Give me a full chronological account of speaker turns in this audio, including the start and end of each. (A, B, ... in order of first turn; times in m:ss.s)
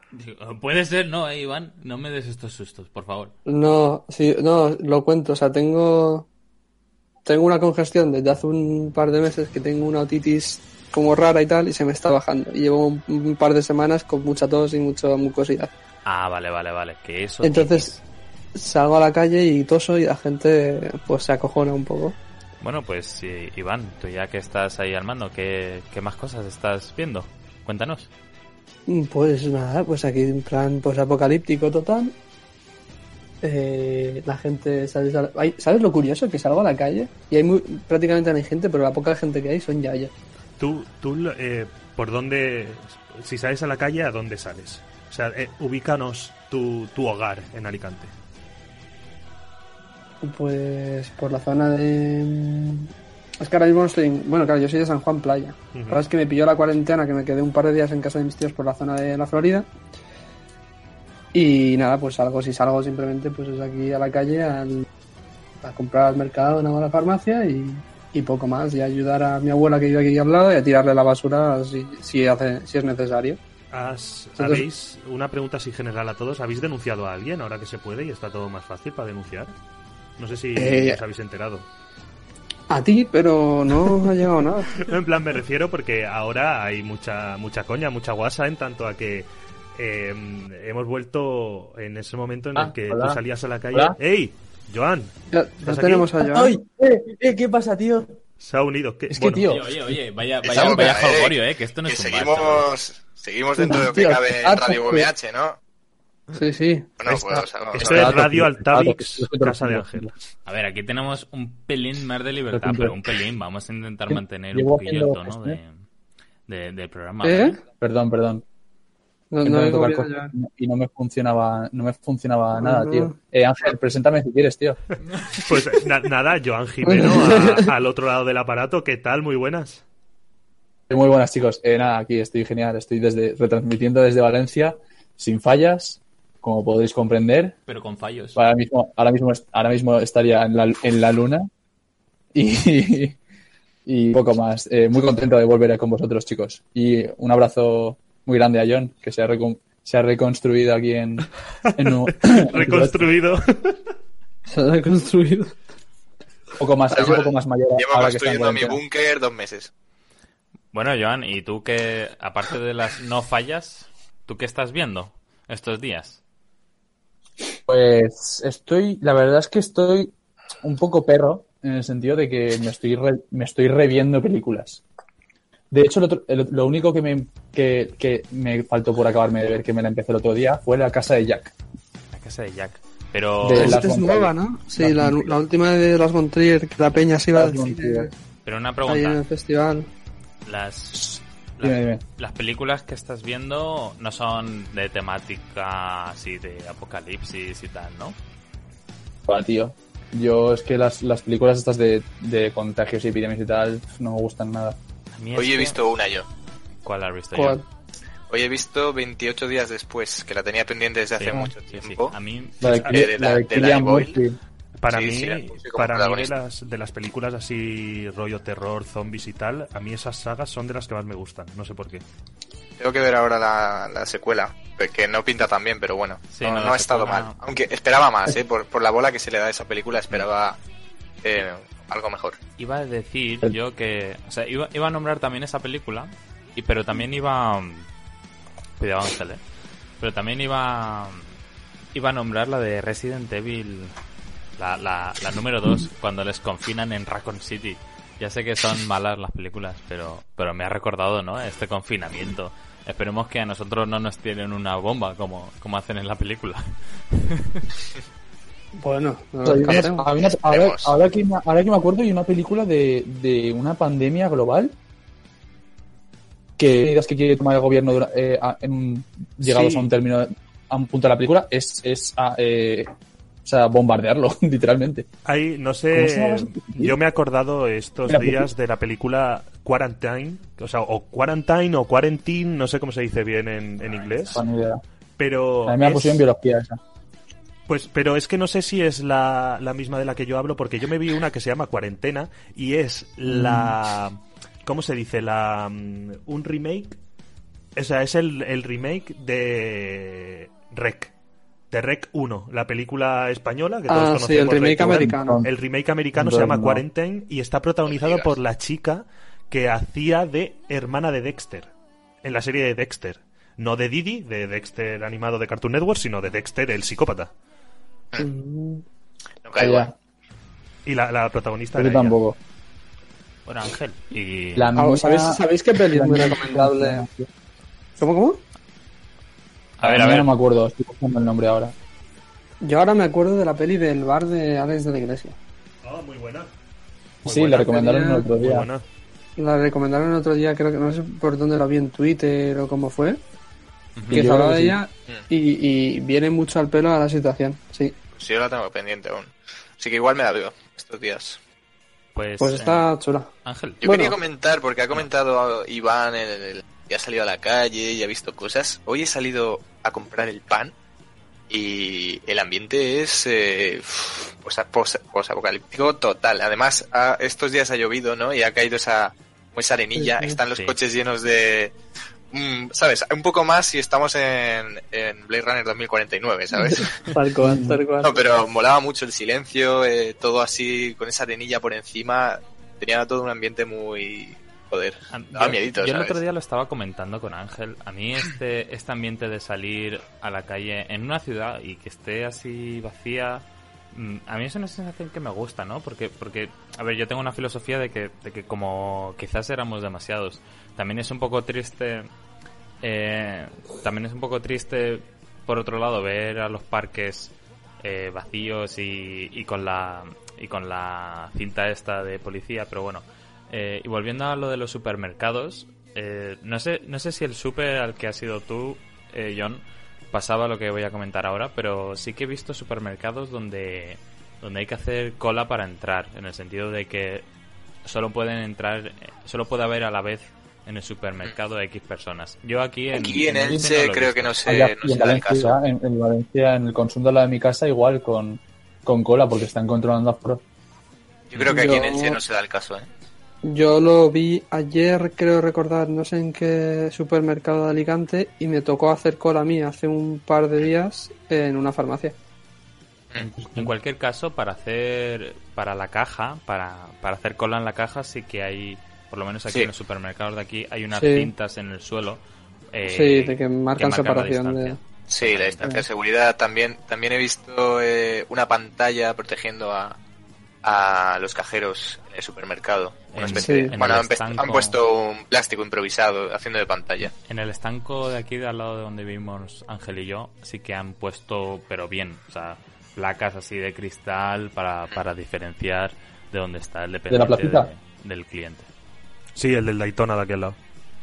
0:00.1-0:03.3 A
0:03.4-0:06.3 B
0:07.2-0:15.7 B
0:16.0-0:18.0 A
0:17.4-0:17.9 B
0:18.6-0:22.2 B
0:22.6-0:28.1 A
0:28.9-0:32.1 B
0:33.4-0:40.1 B
0:40.6-0:48.1 C
0:50.2-0:59.7 B
0:55.7-0:56.0 C
1:01.3-1:04.9 B
1:05.6-1:13.4 B
1:13.7-1:19.5 C
1:14.4-1:14.6 B
1:20.2-1:21.7 C
1:20.6-1:21.0 B
1:22.7-1:24.8 B
1:24.8-1:36.1 C
1:32.6-1:33.2 D
1:35.3-1:36.5 B
1:36.2-1:38.1 D
1:38.4-1:39.4 C
1:39.1-1:39.8 D
1:39.4-1:42.7 A
1:40.4-1:45.6 E
1:43.6-1:45.1 B
1:46.3-1:46.9 B
1:47.0-1:48.1 E
1:47.1-1:50.1 D
1:47.7-1:50.1 C
1:50.4-1:55.8 A
1:52.5-1:52.9 D
1:54.1-1:55.6 D
1:56.5-1:57.6 A
1:57.2-1:57.6 B
1:57.8-1:58.4 D
1:59.3-2:00.3 B
1:59.4-2:04.8 D
2:02.6-2:03.1 B
2:05.4-2:09.8 C
2:06.9-2:07.7 B
2:10.9-2:17.6 D
2:17.7-2:18.4 A
2:18.4-2:21.5 D
2:22.3-2:23.2 D
2:23.9-2:33.1 D
2:31.9-2:33.8 C
2:34.5-2:35.6 B
2:36.6-2:38.8 D
2:36.9-2:39.7 E
2:40.7-2:46.2 A
2:47.7-2:54.8 D
2:55.7-3:01.6 D
3:02.1-3:03.8 A
3:03.4-3:05.4 D
3:03.5-3:08.1 B
3:07.3-3:08.1 D
3:08.4-3:09.2 A
3:08.8-3:09.9 B
3:10.4-3:18.2 A
3:10.9-3:12.0 D
3:19.3-3:24.8 D
3:25.1-3:25.8 A
3:25.3-3:26.3 E
3:26.8-3:27.6 A
3:27.3-3:27.6 B
3:28.3-3:32.2 E
3:31.2-3:32.8 A
3:32.6-3:34.4 D
3:32.7-3:33.0 C
3:32.8-3:34.2 E
3:34.8-3:42.0 C
3:34.9-3:36.3 E
3:42.8-3:50.6 E
3:46.3-3:47.4 A
3:51.2-3:52.4 E
3:52.6-3:57.9 A
3:58.8-3:59.4 A
4:00.0-4:01.3 A
4:01.9-4:03.9 A
4:04.6-4:17.7 A
4:18.8-4:20.1 B
4:19.4-4:24.7 D
4:19.7-4:20.9 E
4:26.6-4:32.9 D
4:29.4-4:29.9 C
4:33.4-4:35.1 D
4:35.3-4:44.4 C
4:35.9-4:37.0 D
4:38.1-4:38.5 D
4:44.3-4:44.8 D
4:45.2-4:46.2 C
4:45.6-4:46.8 D
4:47.7-4:57.0 C
4:53.3-4:53.8 D
4:57.8-5:01.1 C
5:01.7-5:11.7 C
5:03.9-5:05.4 B
5:04.8-5:05.5 D
5:06.1-5:06.8 D
5:07.9-5:08.3 E
5:12.2-5:17.3 C
5:18.2-5:18.8 B
5:19.4-5:19.9 E
5:19.6-5:19.9 D
5:20.8-5:22.2 C
5:21.8-5:22.4 D
5:23.4-5:24.8 A
5:24.6-5:27.3 D
5:24.8-5:27.0 B
5:28.0-5:28.4 B
5:29.8-5:30.3 A
5:29.8-5:31.7 D
5:32.6-5:35.4 B
5:35.8-5:36.5 C
5:37.2-5:38.7 D
5:37.3-5:38.8 C
5:37.6-5:38.2 B
5:39.4-5:43.2 B
5:44.0-5:44.2 A
5:44.1-5:44.8 D
5:44.1-5:47.9 B
5:48.1-5:51.4 E
5:52.2-5:53.8 A
5:52.4-5:53.3 B
5:53.8-6:00.7 E
5:53.8-5:54.2 B
6:01.5-6:11.7 E
6:10.0-6:10.4 B
6:12.3-6:26.2 E
6:16.6-6:18.2 B
6:25.1-6:42.1 A
6:42.8-7:07.3 A
7:07.8-7:14.5 A
7:12.9-7:15.6 E
7:14.4-7:20.4 D
7:21.3-7:22.9 E
7:21.4-7:22.2 B
7:23.4-7:32.2 B
7:33.2-7:42.2 A
7:40.9-7:41.3 B
7:42.7-7:45.8 A
7:42.9-7:44.8 B
7:45.1-7:50.0 E
7:50.6-7:57.1 E
7:53.1-7:54.8 A
7:53.3-7:53.8 B
7:57.3-8:08.7 A
8:07.1-8:07.7 D
8:09.4-8:10.6 C